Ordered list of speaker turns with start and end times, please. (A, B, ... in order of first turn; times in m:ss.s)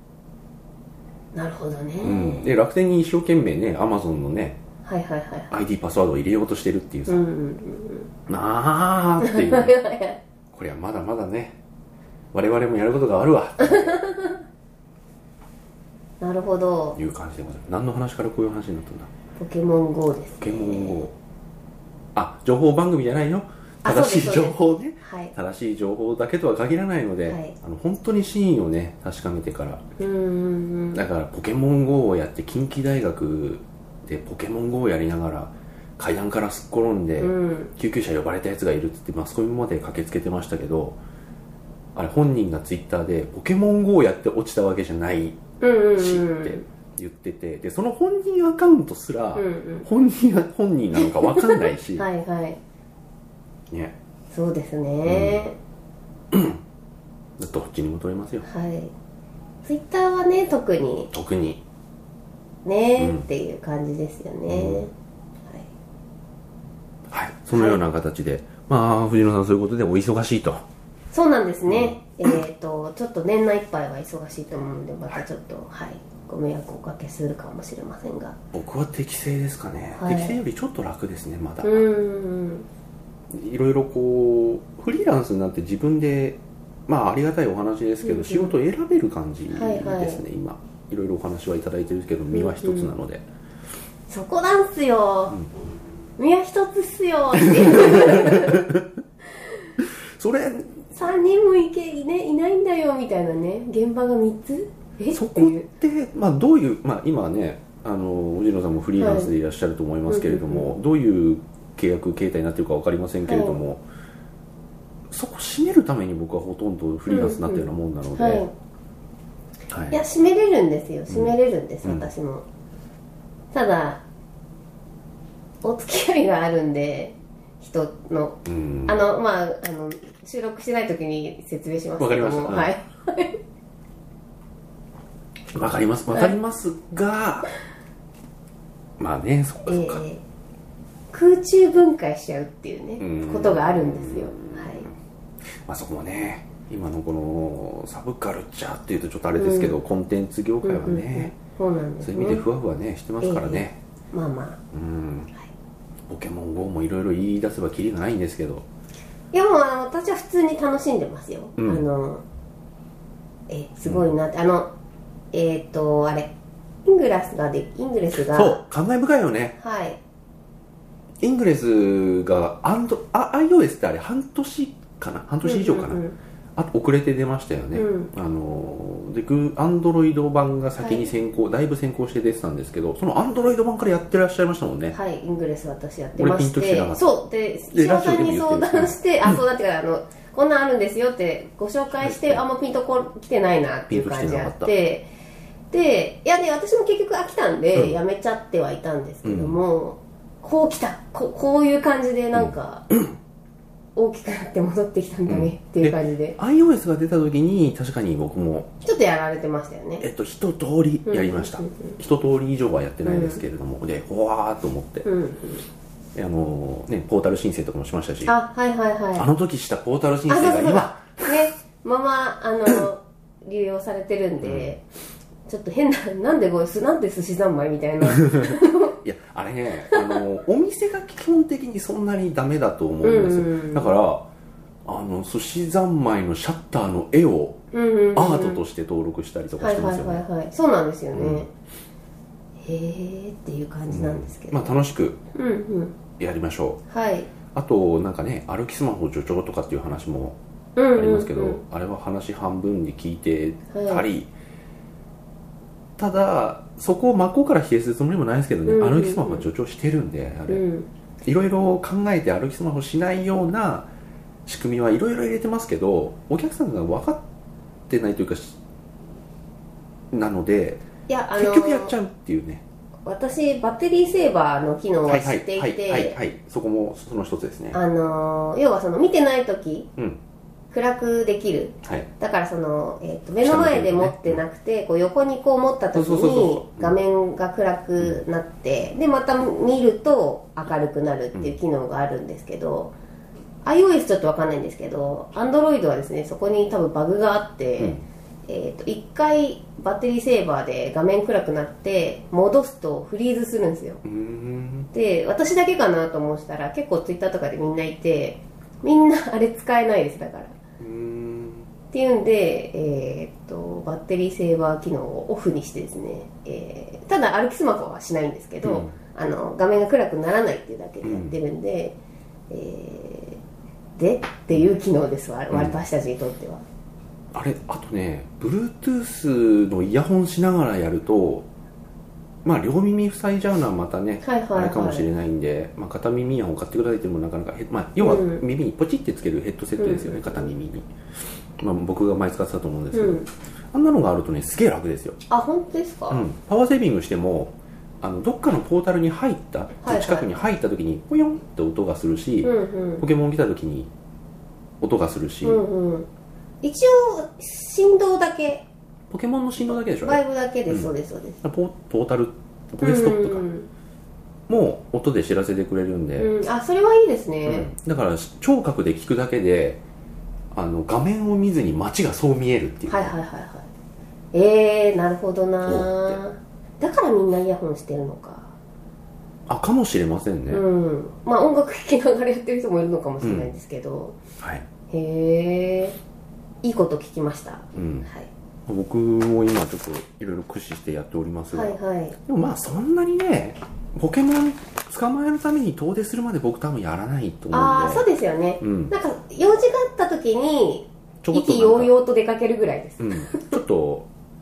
0:01.3-0:02.4 A
0:02.0-0:04.6 B
0:04.8-0:05.5 A
0:05.5-0:07.2 B
0:07.1-0:08.1 A
0:08.3-0:09.7 B
0:09.2-0:10.2 A
0:10.5-0:11.6 B
0:12.3-0:14.0 B
0:13.6-0:14.4 A
0:16.2-0:17.0 A
0:17.0-0:19.1 B
0:19.4-0:21.0 A
0:20.4-0:21.1 B
0:22.1-0:29.8 B
0:23.8-0:25.3 A
0:27.3-0:27.5 A
0:30.0-0:31.0 A
0:30.9-0:41.0 B
0:37.2-0:37.7 A
0:41.9-0:45.4 B
0:45.6-0:46.6 A
0:45.9-0:52.0 B
0:49.4-0:49.8 A
0:51.0-0:52.6 A
0:54.3-0:55.6 A
0:55.0-0:55.4 B
0:56.3-0:56.6 B
0:57.4-0:58.5 B
0:58.4-0:58.9 A
0:59.6-1:01.1 A
1:01.1-1:01.6 B
1:02.6-1:04.9 A
1:03.0-1:03.3 B
1:04.5-1:04.8 B
1:07.1-1:10.6 B
1:07.5-1:07.8 A
1:11.1-1:18.4 A
1:11.7-1:12.0 B
1:18.5-1:21.8 B
1:20.0-1:20.4 A
1:21.6-1:22.7 A
1:23.3-1:33.2 B
1:28.0-1:28.5 A
1:29.5-1:30.2 A
1:32.3-1:32.9 A
1:34.1-1:35.4 A
1:36.2-1:38.7 A
1:37.4-1:38.8 B
1:39.8-1:40.8 B
1:40.9-1:45.6 A
1:45.1-1:53.8 B
1:49.0-1:49.3 A
1:50.1-1:50.7 A
1:53.2-1:53.6 A
1:55.1-1:58.4 B
1:57.1-1:58.5 A
1:59.7-2:00.0 B
1:59.9-2:02.4 A
2:01.1-2:02.1 B
2:03.5-2:04.0 A
2:05.6-2:13.4 A
2:08.4-2:09.0 B
2:12.0-2:12.7 B
2:15.5-2:17.5 B
2:19.0-2:20.0 B
2:19.6-2:20.2 A
2:21.1-2:24.9 A
2:23.0-2:24.9 B
2:25.6-2:31.3 B
2:29.4-2:29.8 A
2:30.6-2:32.4 A
2:32.0-2:33.8 B
2:33.2-2:34.6 A
2:34.7-2:35.3 B
2:36.1-2:38.6 B
2:39.3-2:42.2 A
2:41.6-2:41.8 B
2:43.5-2:44.7 A
2:45.3-2:46.3 A
2:46.8-2:48.6 A
2:48.1-2:49.6 B
2:49.6-2:50.0 A
2:51.2-2:56.0 B
2:55.4-2:56.2 A
2:56.6-3:05.0 B
2:57.7-2:58.1 A
3:00.8-3:01.1 A
3:04.9-3:15.1 A
3:06.2-3:07.0 B
3:07.7-3:09.3 B
3:12.0-3:12.4 B
3:13.9-3:14.7 B
3:15.7-3:22.9 A
3:19.2-3:19.6 B
3:22.3-3:23.1 B
3:24.0-3:26.4 A
3:25.3-3:28.7 B
3:28.8-3:30.1 A
3:30.0-3:35.0 B
3:31.0-3:32.0 A
3:33.0-3:33.4 A
3:35.0-3:35.6 A
3:36.1-3:38.3 B
3:38.2-3:39.3 A
3:39.2-3:41.3 B
3:40.3-3:44.8 A
3:44.4-3:44.7 B
3:45.5-3:49.0 A
3:48.1-3:54.2 B
3:49.9-3:50.2 A
3:53.0-3:54.0 A
3:54.8-3:57.6 B
3:57.7-3:58.6 A
3:58.1-4:00.2 B
3:59.6-4:01.5 A
4:01.1-4:01.4 B
4:02.6-4:04.7 A
4:03.9-4:05.2 B
4:05.3-4:05.9 A
4:06.2-4:06.8 B
4:06.9-4:07.3 A
4:07.5-4:10.4 B
4:10.8-4:11.6 A
4:10.9-4:14.3 B
4:13.7-4:14.0 A
4:16.0-4:20.6 B
4:18.7-4:19.5 A
4:20.5-4:20.9 A
4:21.2-4:23.9 B
4:24.4-4:27.2 B
4:27.9-4:28.6 B
4:30.1-4:32.6 B
4:31.1-4:31.9 A
4:33.0-4:36.2 A
4:35.0-4:37.8 B
4:37.7-4:39.9 A
4:40.7-4:52.9 A
4:43.4-4:44.4 B
4:45.9-4:47.0 B
4:53.6-5:04.0 A
5:04.0-5:04.9 B
5:04.9-5:10.6 A
5:10.8-5:11.6 B
5:11.9-5:22.0 A
5:18.6-5:18.9 B
5:21.0-5:21.4 B
5:22.5-5:23.4 A
5:24.0-5:26.6 A
5:25.5-5:25.8 B
5:27.3-5:31.5 B
5:32.4-5:40.9 B
5:34.2-5:35.1 A
5:38.0-5:38.4 A
5:39.8-5:40.5 A
5:41.6-5:45.2 B
5:42.9-5:43.3 A
5:45.3-5:46.3 A
5:46.1-5:53.9 B
5:49.8-5:50.3 A
5:52.4-5:53.0 A
5:54.8-5:55.6 B
5:55.4-5:56.1 A
5:56.6-5:58.6 A
5:59.1-6:03.4 B
6:00.0-6:01.4 A
6:02.8-6:03.7 A
6:04.5-6:06.3 B
6:06.2-6:07.7 A
6:07.4-6:09.8 B
6:10.5-6:13.1 B
6:12.9-6:13.7 A
6:14.3-6:18.5 A
6:15.6-6:16.2 B
6:19.5-6:20.6 B
6:20.5-6:24.2 A
6:23.2-6:23.5 B
6:24.4-6:24.6 B
6:24.9-6:26.0 A
6:26.6-6:28.3 A
6:27.7-6:28.1 B
6:28.7-6:38.1 B
6:31.5-6:32.2 A
6:37.5-6:43.6 A
6:38.6-6:38.9 B
6:41.2-6:41.9 B
6:43.0-6:44.1 B